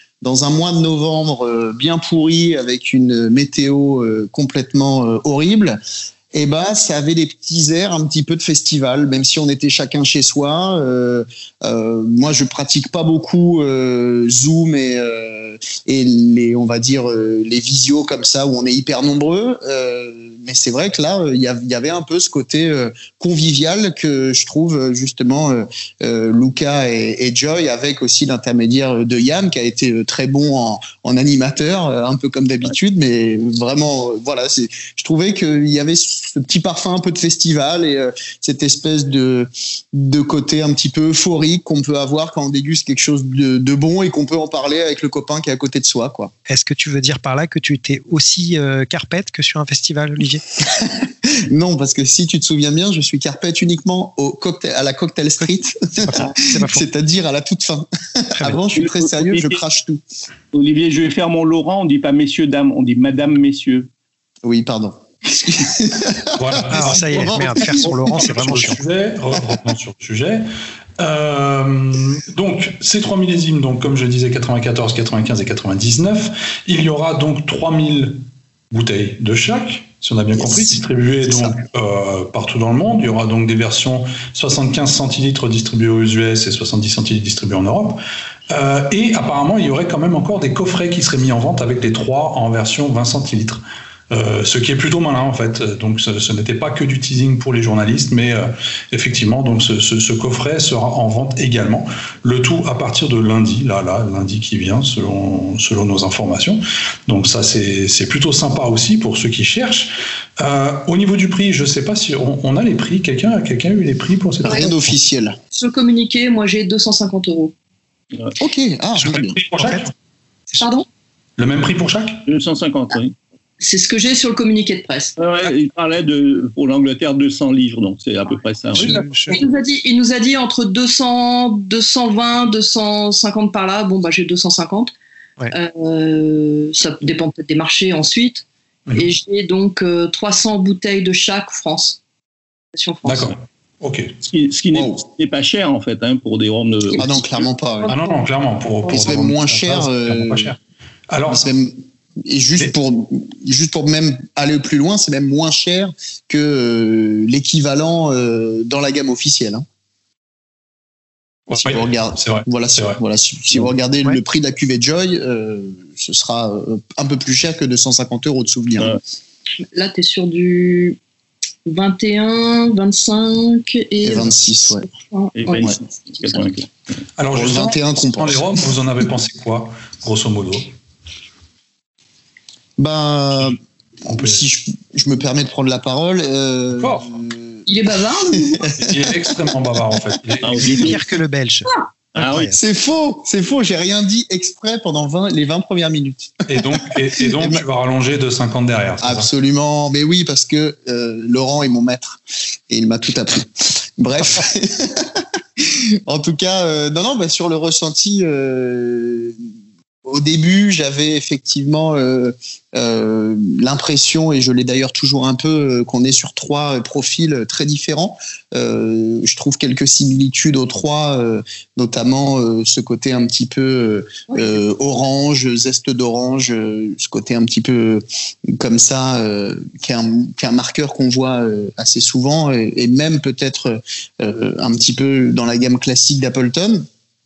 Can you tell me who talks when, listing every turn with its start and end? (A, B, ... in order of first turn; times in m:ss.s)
0:00.2-0:05.8 A
0:06.3-0:46.3 A
0:46.5-0:50.4 B
0:50.8-1:00.0 A
0:56.0-0:56.9 B
0:58.8-0:59.6 C
1:00.5-1:03.9 C
1:04.4-1:08.5 A
1:06.4-1:10.5 D
1:06.7-1:08.8 B
1:11.0-1:18.2 D
1:18.7-1:55.0 D
1:54.4-1:55.4 A
1:54.4-1:54.7 E
1:55.5-1:57.6 E
1:58.4-1:59.4 A
1:59.0-1:59.9 B
1:59.2-1:59.9 D
2:00.6-2:00.9 E
2:01.4-2:02.3 D
2:02.3-2:03.2 C
2:03.6-2:05.2 E
2:05.2-2:09.4 C
2:08.7-2:09.4 B
2:09.3-2:14.9 E
2:15.5-2:22.0 E
2:18.9-2:19.1 D
2:22.8-2:23.4 E
2:23.0-2:24.1 D
2:24.3-2:27.4 C
2:27.0-2:28.0 A
2:27.9-2:30.6 D
2:29.0-2:30.5 A
2:31.1-2:31.5 D
2:31.3-2:39.6 A
2:41.5-2:43.0 D
2:41.6-2:49.0 A
2:49.7-2:51.0 E
2:51.7-2:56.3 E
2:54.0-2:54.8 A
2:55.4-2:57.0 C
2:57.2-3:00.7 D
2:57.3-2:58.6 A
3:02.8-3:07.6 A
3:04.1-3:04.4 D
3:06.8-3:07.1 D
3:07.7-3:08.6 E
3:08.3-3:09.4 A
3:08.8-3:11.0 D
3:10.4-3:11.0 C
3:10.6-3:12.6 B
3:12.2-3:12.5 C
3:12.5-3:17.6 A
3:16.5-3:19.3 D
3:19.0-3:29.3 A
3:30.1-3:56.9 A